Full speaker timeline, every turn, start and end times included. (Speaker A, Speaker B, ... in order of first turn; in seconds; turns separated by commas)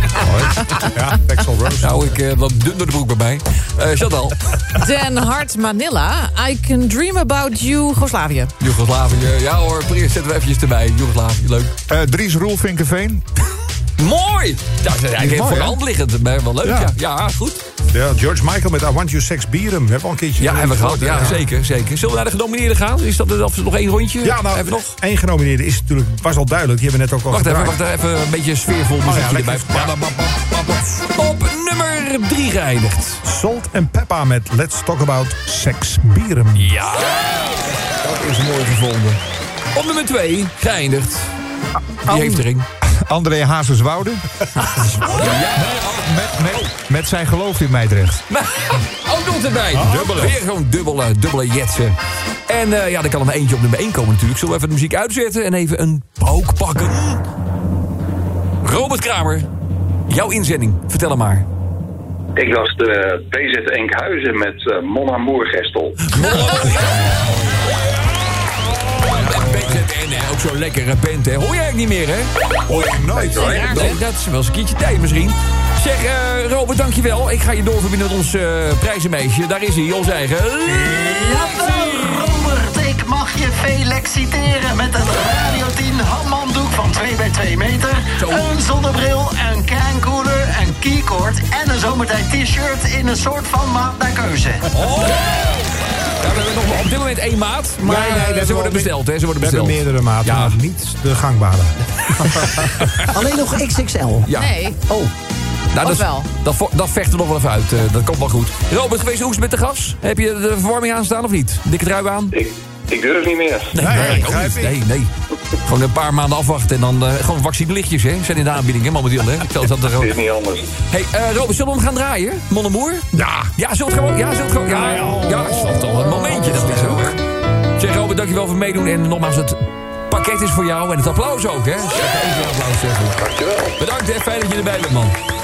Speaker A: 0.3-0.7, Speaker B: 0.7-1.9, Speaker A: 1.8-4.5, Speaker C: 4.8-8.5, Speaker A: 8.6-11.7, Speaker D: 11.9-13.2, Speaker A: 14.0-17.6, Speaker D: 15.2-15.8, Speaker B: 16.6-16.9, Speaker B: 17.9-21.4, Speaker A: 20.4-25.0, Speaker B: 24.2-27.8, Speaker A: 27.3-33.2, Speaker B: 29.0-30.0, Speaker B: 33.2-36.8, Speaker A: 36.6-39.2, Speaker A: 39.7-41.3, Speaker D: 42.0-42.5, Speaker A: 42.0-42.7, Speaker D: 43.0-44.3, Speaker A: 44.6-46.7, Speaker D: 45.1-48.2, Speaker A: 48.3-52.0, Speaker B: 49.7-50.4, Speaker A: 52.5-57.2, Speaker A: 58.6-59.5, Speaker A: 60.1-61.5, Speaker E: 62.4-66.0, Speaker A: 66.1-72.3, Speaker B: 72.7-73.2, Speaker A: 72.9-82.2, Speaker C: 73.3-74.0, Speaker F: 80.8-94.7, Speaker A: 88.2-88.5, Speaker A: 94.7-100.6, Speaker B: 97.8-102.6, Speaker F: 103.1-104.3, Speaker A: 104.2-104.6, Speaker C: 104.3-104.9, Speaker A: 105.7-112.3, Speaker C: 105.8-106.3, Speaker E: 112.3-113.7, Speaker A: 113.7-115.1, Speaker B: 113.7-114.8, Speaker A: 115.6-120.2, Speaker E: 119.9-120.6, Speaker A: 120.9-127.2, Speaker B: 123.2-123.5, Speaker B: 124.7-127.1, Speaker A: 127.8-133.2, Speaker E: 133.2-133.7, Speaker A: 133.8-135.2